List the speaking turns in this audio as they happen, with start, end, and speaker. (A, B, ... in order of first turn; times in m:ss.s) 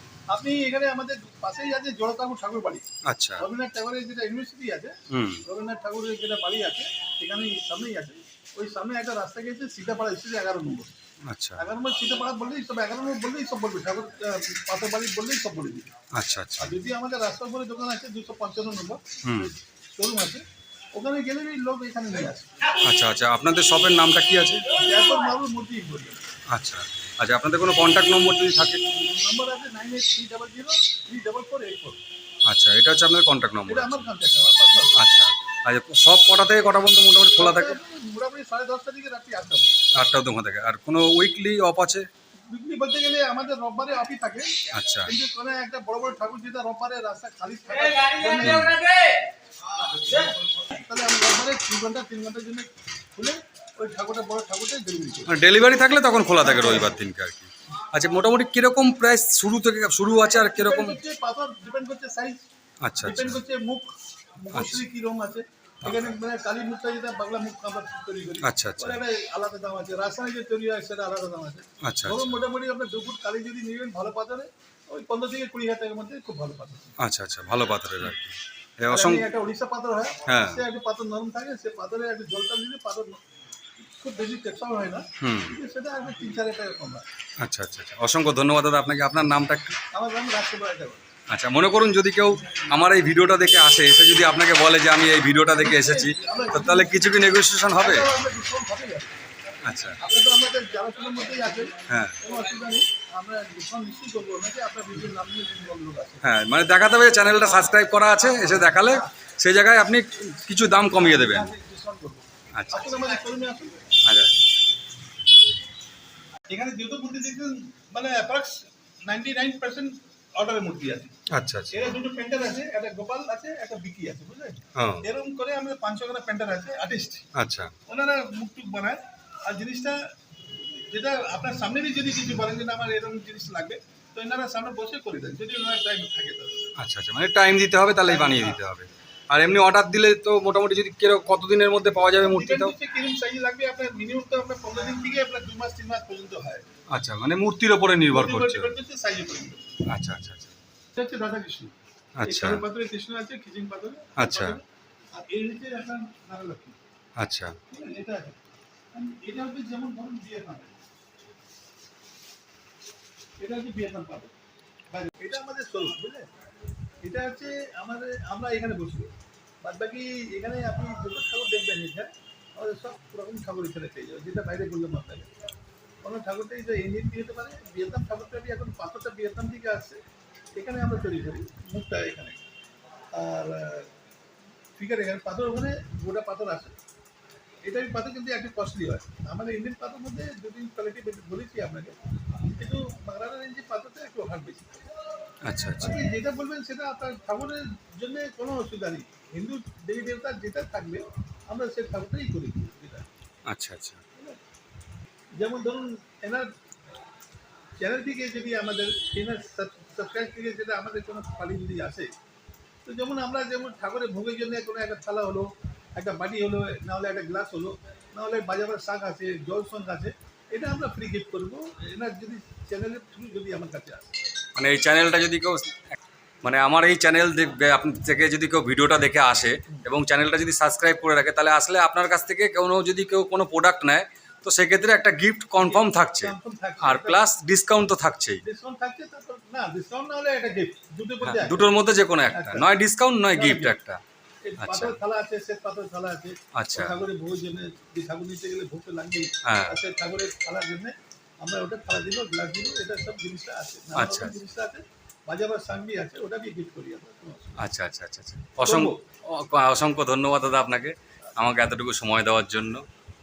0:00.3-0:02.8 A
0:03.1-0:03.4 B
0:03.4-0:10.9 A
0:05.1-0:05.4 B
0:11.3-0:11.6 B
0:11.6-0:15.9 A
0:16.2-0:16.8 B
0:16.6-0:20.4 A
0:19.2-0:19.5 B
0:20.9-0:22.5 A
0:22.8-0:24.7 B
0:24.7-0:26.2 A
0:26.5-0:28.8 B
0:28.8-0:32.0 A
0:32.5-0:34.1 B
0:33.7-0:35.0 A
0:35.0-0:37.8 B
0:37.4-0:39.7 A
0:40.0-0:42.1 B
0:42.5-0:49.0 A
0:44.7-0:45.1 B
0:48.4-0:48.8 B
0:49.9-0:55.3 A
0:55.3-1:01.0 B
0:56.4-0:56.9 A
1:00.5-1:02.4 A
1:02.8-1:03.4 B
1:03.0-1:17.0 A
1:04.5-1:04.8 B
1:05.8-1:06.1 B
1:08.4-1:09.0 B
1:11.8-1:12.4 B
1:17.0-1:19.3 B
1:18.9-1:23.2 A
1:20.3-1:20.6 B
1:24.0-1:27.0 A
1:25.2-1:25.6 B
1:27.4-1:29.8 B
1:29.9-1:31.0 A
1:31.3-1:38.1 B
1:35.6-1:39.1 A
1:39.6-1:40.0 B
1:40.0-1:46.3 A
1:41.9-1:42.2 B
1:46.2-1:51.5 B
1:48.2-1:49.1 A
1:50.8-1:53.8 A
1:52.5-1:53.0 B
1:54.0-1:54.4 B
1:56.5-2:01.1 A
2:01.3-2:01.8 B
2:01.7-2:07.3 A
2:04.8-2:05.1 B
2:07.4-2:07.7 B
2:07.9-2:10.0 A
2:10.9-2:16.7 A
2:16.8-2:22.7 B
2:18.1-2:18.6 A
2:22.2-2:26.6 A
2:26.9-2:28.7 B
2:28.1-2:29.8 A
2:29.9-2:30.6 B
2:31.0-2:36.8 A
2:32.2-2:32.6 B
2:34.2-2:34.6 B
2:37.2-2:37.6 B
2:37.7-2:38.4 A
2:38.9-2:40.7 A
2:43.4-2:44.3 A
2:44.9-2:46.3 A
2:47.0-2:49.1 A
2:49.6-2:55.3 A
2:56.0-3:00.0 A
3:00.6-3:02.4 A
3:03.1-3:03.9 A
3:04.8-3:06.8 A
3:07.6-3:12.0 A
3:12.6-3:14.9 A
3:15.4-3:16.0 B
3:15.8-3:23.1 A
3:23.5-3:24.0 B
3:25.4-3:26.5 A
3:27.8-3:32.1 A
3:32.8-3:44.2 A
3:44.6-3:45.8 B
3:46.4-3:58.4 B
3:55.6-3:57.2 A
3:58.4-4:01.7 A
4:01.2-4:04.0 B
4:02.3-4:02.7 A
4:03.3-4:03.8 A
4:04.4-4:17.6 A
4:04.6-4:05.0 B
4:06.6-4:07.0 B
4:09.4-4:09.8 B
4:14.0-4:14.4 B
4:17.6-4:22.8 B
4:18.6-4:19.0 A